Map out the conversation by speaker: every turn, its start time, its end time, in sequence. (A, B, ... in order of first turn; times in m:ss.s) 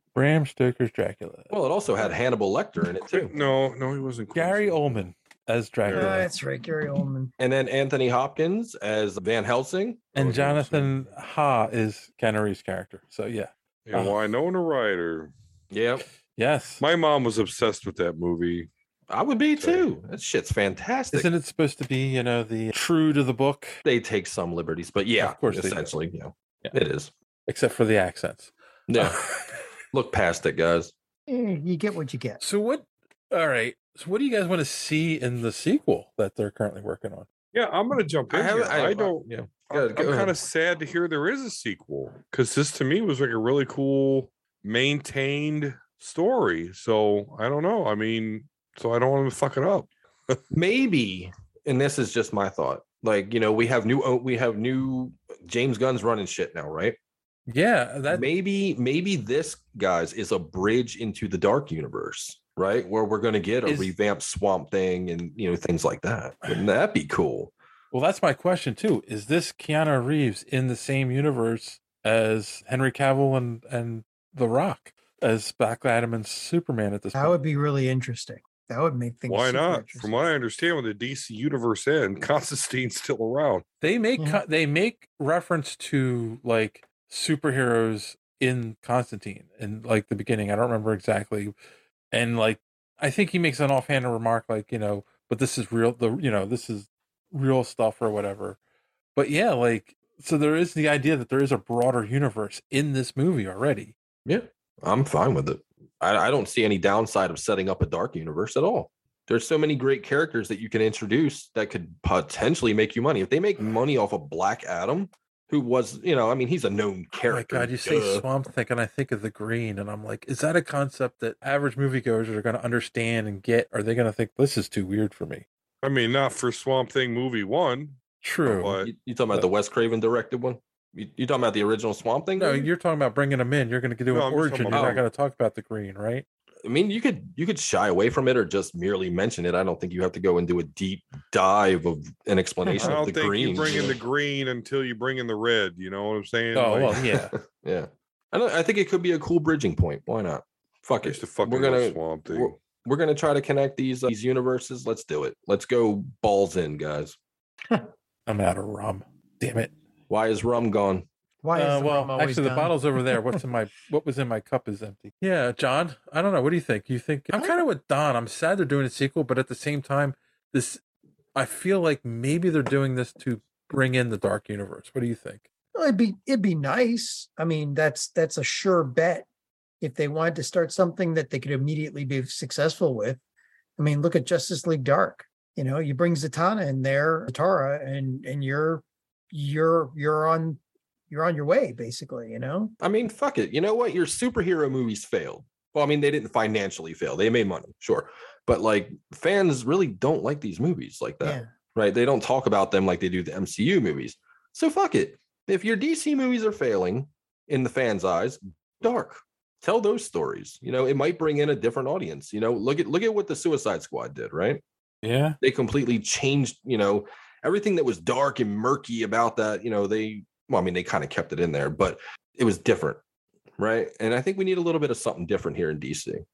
0:00.2-0:01.6 A
0:01.5-0:03.3 B
0:03.1-0:05.0 C
0:04.4-0:06.3 A
0:05.9-0:06.2 C
0:05.9-0:07.3 D
0:07.4-0:10.2 B
0:10.2-0:14.2 A
0:10.2-0:11.0 C
0:13.9-0:15.3 C
0:15.7-0:16.0 B
0:16.4-0:16.8 A
0:16.8-0:18.7 C
0:19.1-0:21.3 B
0:19.6-0:19.9 C
0:21.1-0:23.8 A
0:23.8-0:27.1 B
0:25.2-0:25.9 A
0:27.5-0:29.2 A
0:28.9-0:29.2 B
0:29.9-0:30.9 B
0:31.3-0:32.4 D
0:32.4-0:37.3 A
0:37.5-0:50.4 C
0:38.3-0:40.3 B
0:50.5-0:57.0 B
0:57.5-0:58.3 A
0:58.1-1:07.5 B
1:03.6-1:03.9 A
1:07.9-1:17.4 A
1:17.2-1:20.1 D
1:19.3-1:23.6 C
1:23.8-1:31.5 A
1:32.1-1:38.6 A
1:39.2-1:43.9 A
1:44.3-1:58.3 B
1:57.3-2:05.4 A
2:05.8-2:08.9 C
2:08.2-2:08.8 A
2:08.8-2:12.7 B
2:12.4-2:16.3 A
2:14.1-2:15.0 C
2:14.7-2:15.0 B
2:16.6-2:24.0 B
2:22.8-2:27.0 C
2:26.5-2:27.3 A
2:27.0-2:37.2 B
2:31.0-2:32.6 C
2:38.3-2:39.7 A
2:40.1-2:41.1 B
2:41.4-2:43.4 D
2:41.6-2:50.8 A
2:47.3-2:47.6 D
2:51.4-2:55.4 A
2:55.8-2:59.3 D
2:59.8-3:03.2 D
3:03.8-3:10.6 D
3:11.1-3:12.7 D
3:12.8-3:34.6 B
3:21.2-3:21.5 D
3:35.0-3:35.4 A
3:35.4-3:43.0 B
3:43.6-3:46.2 B